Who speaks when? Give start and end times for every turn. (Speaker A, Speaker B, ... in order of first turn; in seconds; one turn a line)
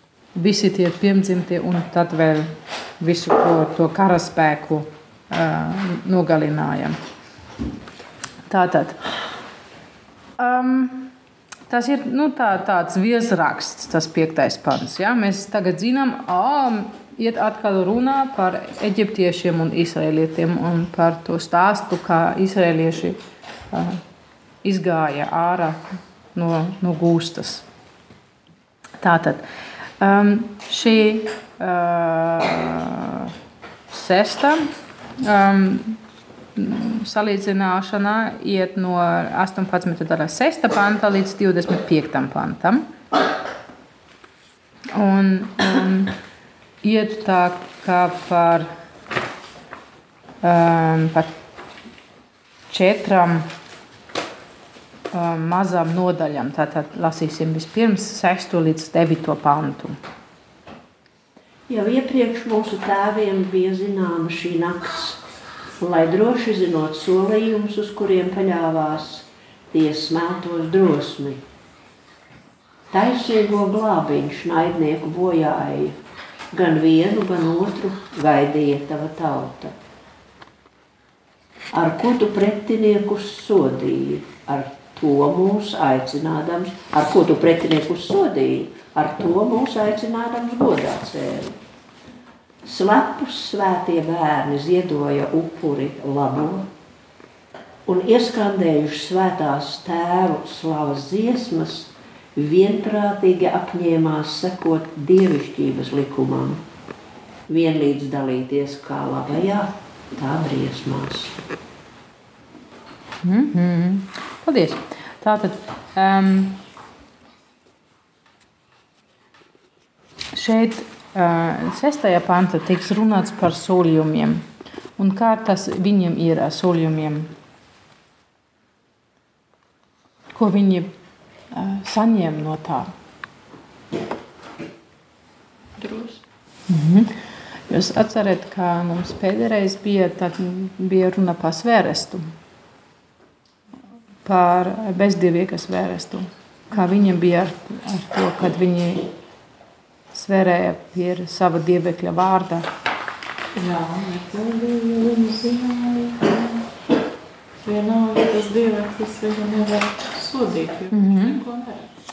Speaker A: 0.3-7.0
Speaker A: 8.5-9.0
Speaker A: 10.4-11.1
Speaker A: 11.7-23.2
Speaker A: 23.7-24.0
Speaker A: 24.6-25.8
Speaker A: 26.3-27.6
Speaker A: 29.0-29.4
Speaker A: 30.0-33.3
Speaker A: 33.9-36.0
Speaker A: 36.5-42.9
Speaker A: 44.9-46.1
Speaker A: 46.8-48.7
Speaker A: 50.4-51.3
Speaker A: 52.7-53.5
Speaker A: 55.1-60.0
Speaker B: 61.7-65.2
Speaker B: 65.8-71.4
Speaker B: 72.9-75.9
Speaker B: 76.5-79.7
Speaker B: 81.7-91.5
Speaker B: 92.6-96.7
Speaker B: 97.8-106.6
Speaker B: 107.5-111.4
Speaker A: 113.2-116.6
Speaker A: 120.3-127.3
Speaker A: 130.3-130.9
Speaker A: 131.5-132.9
Speaker C: 135.8-136.2
Speaker A: 136.7-137.1
Speaker A: 137.7-142.3
Speaker A: 144.2-149.1
Speaker A: 150.1-152.7
Speaker C: 153.5-156.6
Speaker C: 157.6-161.9
Speaker A: 160.9-161.4